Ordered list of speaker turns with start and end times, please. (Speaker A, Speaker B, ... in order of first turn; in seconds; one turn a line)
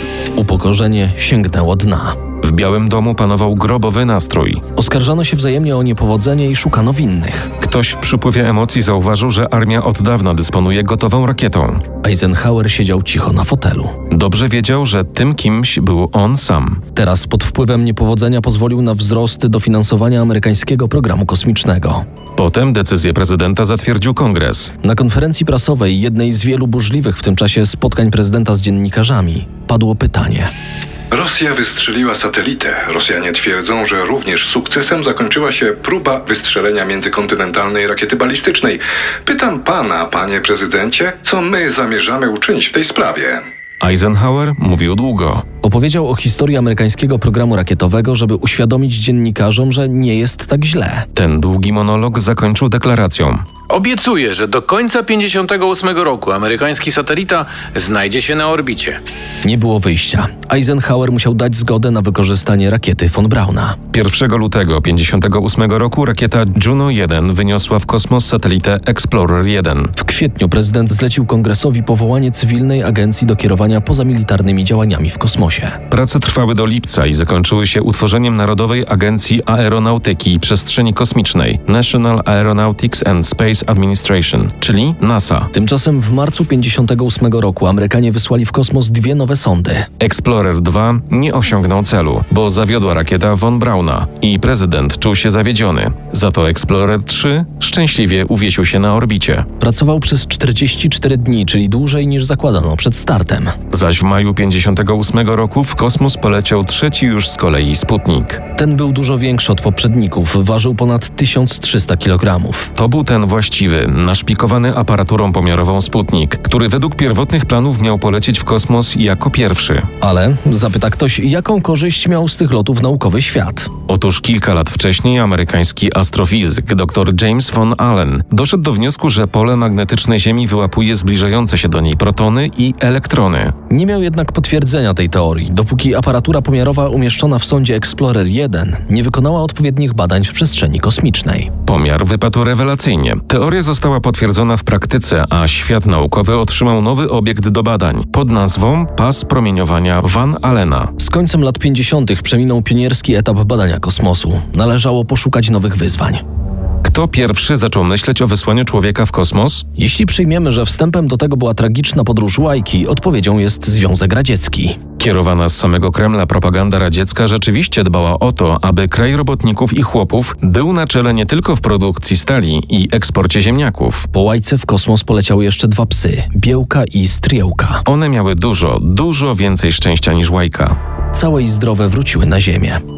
Speaker A: 0.3-2.2
Speaker B: 2.4-4.6
Speaker A: 4.8-7.5
Speaker B: 7.6-11.8
Speaker A: 12.0-13.9
Speaker B: 14.1-16.8
Speaker A: 16.9-22.0
Speaker B: 22.4-24.7
Speaker A: 24.8-30.5
Speaker C: 31.1-43.4
Speaker B: 43.8-45.4
Speaker A: 45.6-51.1
Speaker B: 51.1-53.4
Speaker D: 53.7-59.0
Speaker A: 59.4-63.8
Speaker B: 63.9-69.9
Speaker A: 70.0-75.8
Speaker B: 75.9-85.5
Speaker A: 85.5-89.9
Speaker B: 90.0-99.5
Speaker A: 99.6-103.5
Speaker B: 103.7-108.4
Speaker A: 108.5-112.7
Speaker B: 112.8-119.9
Speaker A: 120.0-123.7
Speaker B: 123.9-133.5
Speaker A: 133.7-141.5
Speaker B: 141.7-150.9
Speaker A: 151.0-156.2
Speaker B: 156.8-159.7
Speaker A: 159.8-164.8
Speaker B: 165.0-174.1
Speaker A: 174.1-177.8
Speaker B: 177.8-180.8
Speaker A: 181.1-182.8